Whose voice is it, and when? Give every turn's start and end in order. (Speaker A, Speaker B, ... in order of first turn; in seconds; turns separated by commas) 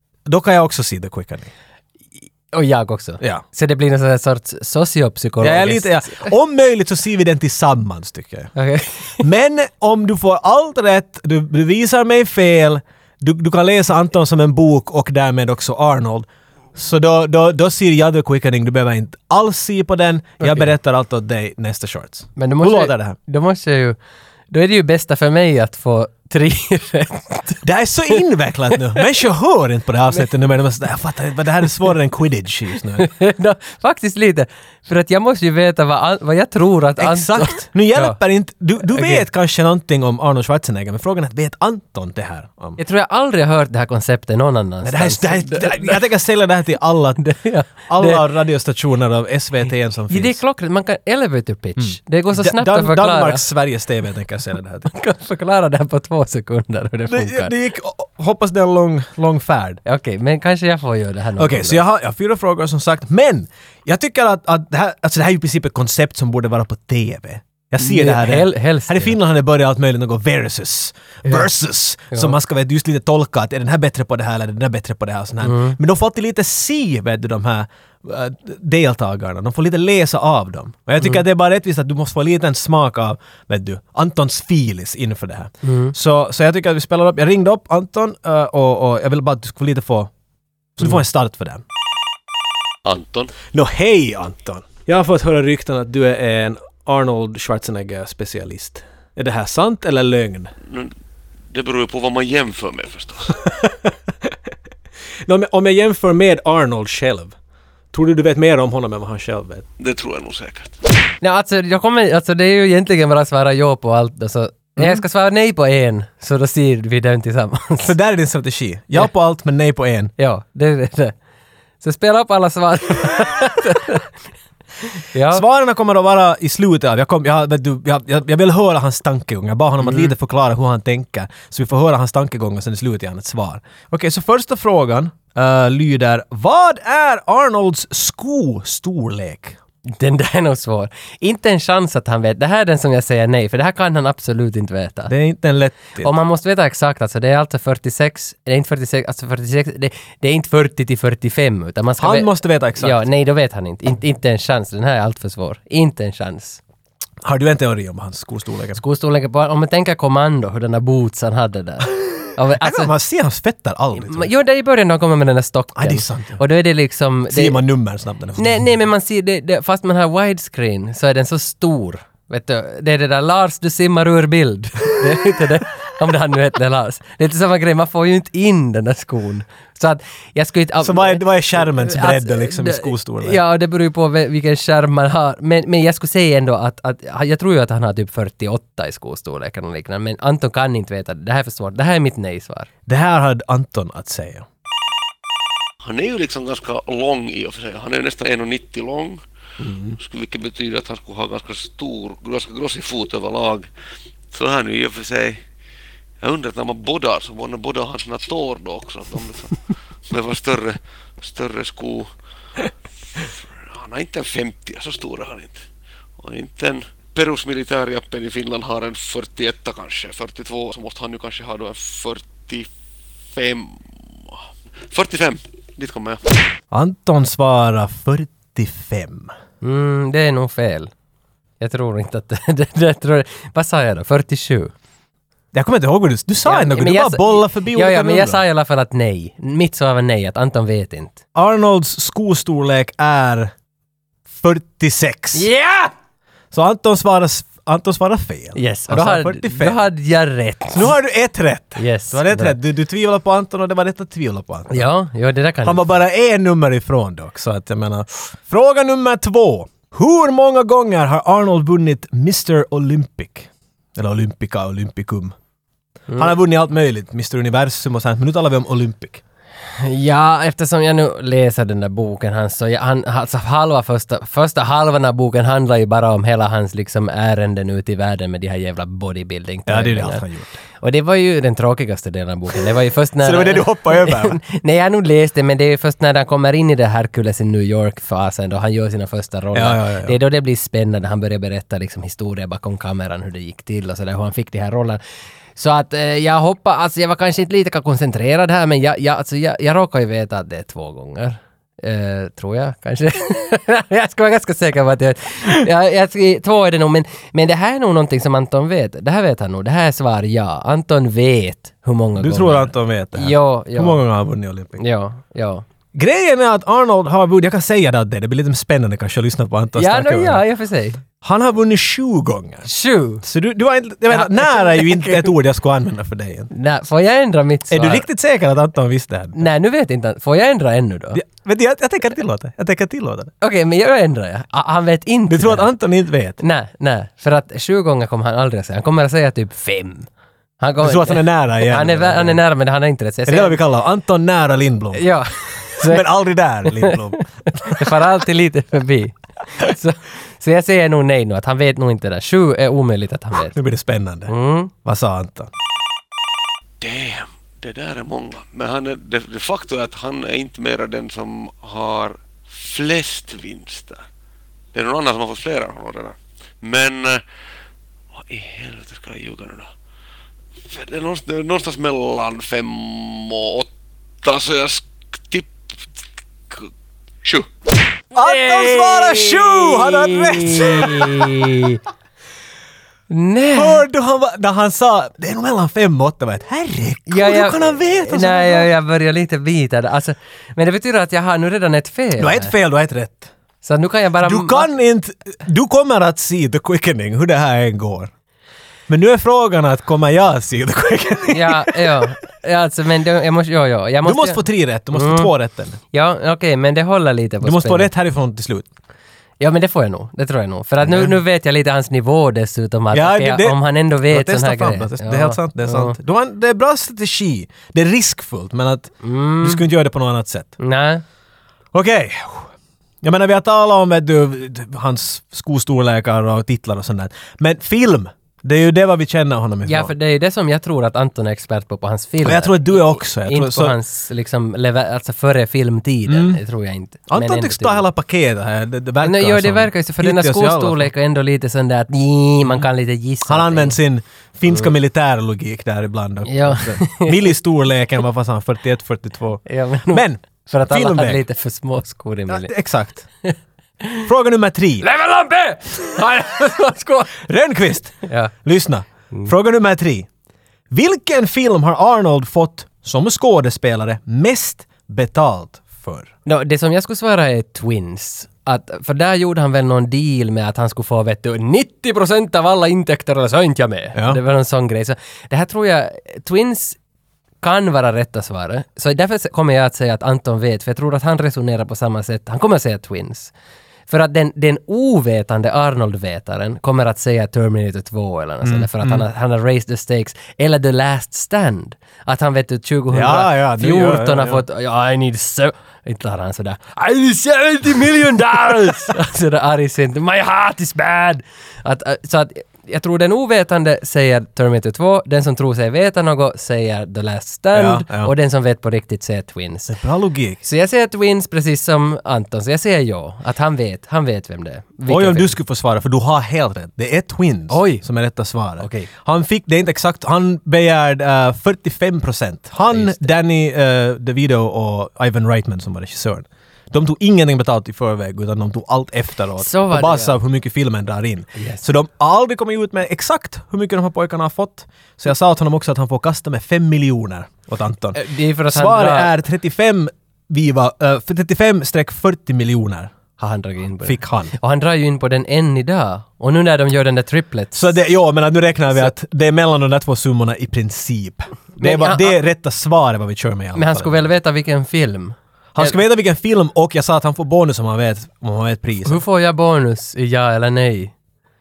Speaker A: 0.3-1.5, Speaker B: 2.5-6.3, Speaker A: 5.4-8.5, Speaker B: 8.6-9.2, Speaker A: 9.2-23.2, Speaker B: 20.4-20.7, Speaker B: 22.4-24.0, Speaker B: 24.5-28.2, Speaker A: 27.6-33.1, Speaker B: 33.0-38.2, Speaker A: 37.0-42.8, Speaker B: 38.8-39.2, Speaker B: 42.8-46.0, Speaker A: 44.8-47.2, Speaker B: 47.2-48.2, Speaker A: 47.9-50.4, Speaker B: 50.1-53.4, Speaker A: 51.8-54.9, Speaker B: 54.9-57.5, Speaker A: 57.1-59.8, Speaker B: 59.9-61.8, Speaker A: 61.4-90.1, Speaker B: 67.8-69.2, Speaker B: 75.4-75.8, Speaker B: 85.6-85.9, Speaker A: 90.8-91.6, Speaker C: 92.8-93.3, Speaker A: 93.5-100.5, Speaker C: 101.5-103.4, Speaker A: 103.4-104.3, Speaker A: 105.3-107.3, Speaker A: 107.9-109.7, Speaker C: 109.8-110.8, Speaker B: 111.2-117.9, Speaker A: 114.8-115.0, Speaker A: 117.8-120.1, Speaker B: 120.2-121.2, Speaker B: 121.8-124.1, Speaker B: 125.0-125.4, Speaker A: 125.3-139.6, Speaker B: 129.8-130.1, Speaker B: 139.9-145.1, Speaker A: 145.1-146.1, Speaker B: 146.0-156.6, Speaker A: 152.0-153.0, Speaker A: 157.2-158.8, Speaker B: 158.8-162.9, Speaker A: 162.6-164.3, Speaker B: 163.9-167.6, Speaker A: 165.8-166.4, Speaker A: 167.3-168.7, Speaker B: 168.4-192.7, Speaker A: 180.8-183.4, Speaker A: 192.9-194.5, Speaker C: 195.8-199.2, Speaker A: 199.6-200.0, Speaker C: 200.0-203.7, Speaker C: 204.3-205.4, Speaker C: 206.2-212.1, Speaker C: 213.1-215.6, Speaker C: 216.2-222.7, Speaker C: 223.3-224.4, Speaker C: 224.9-226.4, Speaker A: 226.7-229.3, Speaker B: 229.6-230.9, Speaker B: 231.6-234.7, Speaker A: 235.5-238.4, Speaker B: 236.4-241.2, Speaker A: 241.3-243.5, Speaker A: 244.3-245.5, Speaker B: 245.3-245.9, Speaker A: 246.5-249.8, Speaker B: 248.6-250.9, Speaker A: 250.7-254.9, Speaker B: 251.8-252.6, Speaker B: 254.7-255.9, Speaker A: 255.6-265.4, Speaker A: 266.1-269.2, Speaker B: 269.8-280.2, Speaker A: 279.7-280.6, Speaker B: 280.8-295.0, Speaker A: 283.2-284.4, Speaker A: 289.5-290.2, Speaker B: 295.6-314.0, Speaker A: 312.2-314.8, Speaker B: 314.8-315.6, Speaker A: 315.9-320.4, Speaker B: 319.8-321.0, Speaker A: 321.2-322.7, Speaker B: 322.6-323.2, Speaker A: 323.2-326.5, Speaker B: 324.1-325.3, Speaker B: 326.5-328.1, Speaker A: 327.7-329.4, Speaker B: 329.4-331.2, Speaker A: 331.1-333.3, Speaker B: 333.4-335.7, Speaker A: 335.3-336.4, Speaker B: 336.4-340.1, Speaker B: 340.6-343.6, Speaker A: 340.8-342.4, Speaker A: 343.3-345.1, Speaker B: 344.9-346.1, Speaker A: 345.8-347.9, Speaker B: 346.6-353.6, Speaker A: 353.3-354.3, Speaker B: 354.3-354.7, Speaker A: 354.9-355.5, Speaker C: 356.8-364.0, Speaker C: 364.7-367.2, Speaker C: 368.1-369.7, Speaker C: 370.7-373.7, Speaker C: 374.2-375.6, Speaker C: 377.2-377.5, Speaker A: 378.1-381.6, Speaker B: 378.1-381.8, Speaker B: 383.1-383.9, Speaker A: 383.5-388.7, Speaker B: 387.1-392.5, Speaker A: 392.2-393.3, Speaker B: 393.6-394.7, Speaker A: 394.2-398.1, Speaker A: 398.9-402.1, Speaker B: 401.3-404.4, Speaker A: 404.0-405.8, Speaker B: 404.9-405.3, Speaker B: 405.9-407.9, Speaker A: 407.4-408.7, Speaker B: 409.4-416.0, Speaker A: 410.8-411.2, Speaker A: 412.9-420.6, Speaker B: 419.0-419.6, Speaker B: 420.6-421.0, Speaker A: 421.7-422.5, Speaker A: 423.0-429.9, Speaker B: 429.6-437.8, Speaker A: 432.2-433.8, Speaker A: 436.1-436.4, Speaker A: 437.1-440.9, Speaker B: 439.0-443.8, Speaker A: 443.2-451.2, Speaker B: 446.3-447.3, Speaker B: 449.5-452.5, Speaker A: 452.3-453.1, Speaker B: 453.2-454.1, Speaker A: 454.1-454.9, Speaker B: 454.8-457.1, Speaker A: 457.2-460.1, Speaker B: 458.0-458.3, Speaker A: 460.7-466.1, Speaker B: 466.3-476.8, Speaker A: 473.9-474.2, Speaker B: 477.4-483.3, Speaker B: 483.9-509.7, Speaker A: 488.4-489.1, Speaker A: 492.9-494.4, Speaker A: 507.5-508.1, Speaker A: 509.7-510.4, Speaker B: 510.4-515.4, Speaker A: 514.9-542.9, Speaker B: 517.5-517.8, Speaker B: 518.6-518.9, Speaker B: 522.7-523.1, Speaker B: 529.4-530.2, Speaker B: 531.4-531.6, Speaker B: 537.9-539.1, Speaker B: 543.2-547.8, Speaker A: 543.9-544.3, Speaker A: 547.5-554.1, Speaker B: 551.6-552.2, Speaker B: 553.5-555.8, Speaker A: 555.5-559.0, Speaker B: 558.9-560.9